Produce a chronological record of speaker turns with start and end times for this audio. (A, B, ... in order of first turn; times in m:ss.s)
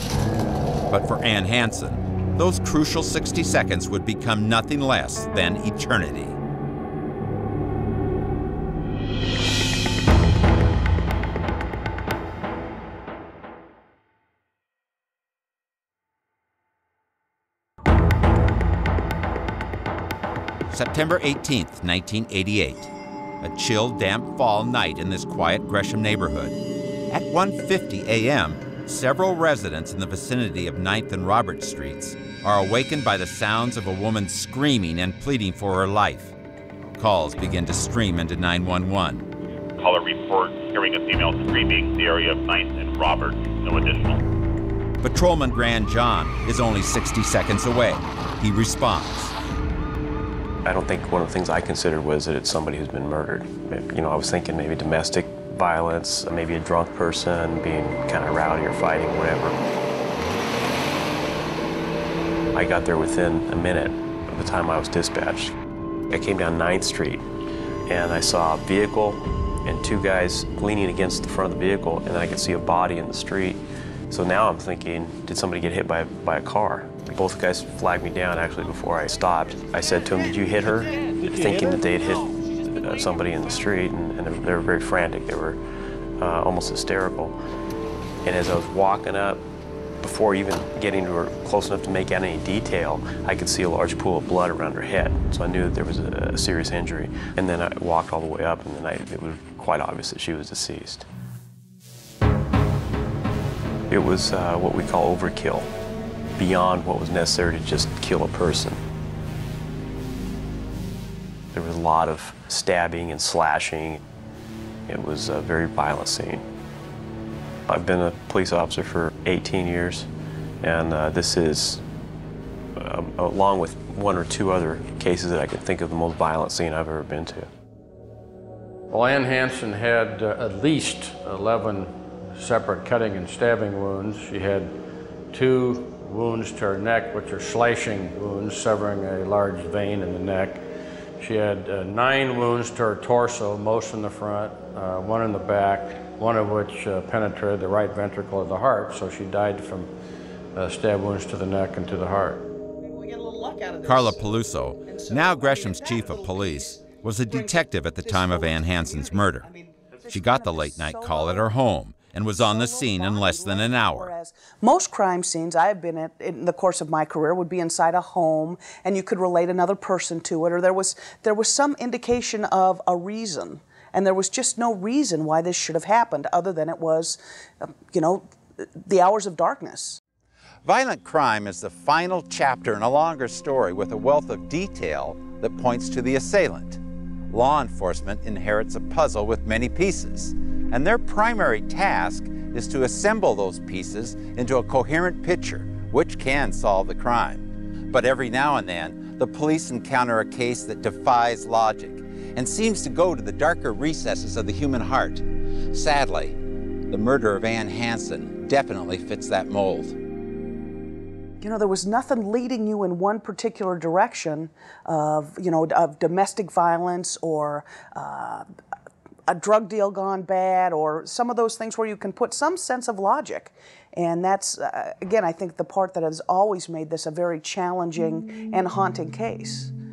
0:00.9-0:06.4 A
0:20.7-0:26.6 A
0:27.1-0:36.3 A
0:37.0-0:39.2 A
0:39.8-0:44.2 B
0:45.0-0:49.3 A
0:50.6-0:59.6 C
1:02.5-1:05.5 C
1:06.1-1:07.2 C
1:07.9-1:25.6 C
1:26.2-1:27.4 C
1:28.2-1:29.4 C
1:30.0-1:41.0 C
1:43.9-1:45.7 C
1:46.4-1:48.8 C
1:51.5-1:54.0 C
1:54.9-1:56.4 C
1:57.7-2:00.1 C
2:00.6-2:01.8 C
2:02.8-2:07.5 C
2:08.9-2:14.7 D
2:15.3-2:20.6 D
2:21.2-2:29.9 D
2:30.5-2:32.5 D
2:33.8-2:39.5 A
2:40.0-2:41.5 E
2:40.1-2:44.1 A
2:42.3-3:00.0 E
3:00.6-3:26.4 A
3:26.9-3:30.0 A
3:31.4-3:38.4 E
3:39.3-3:49.7 E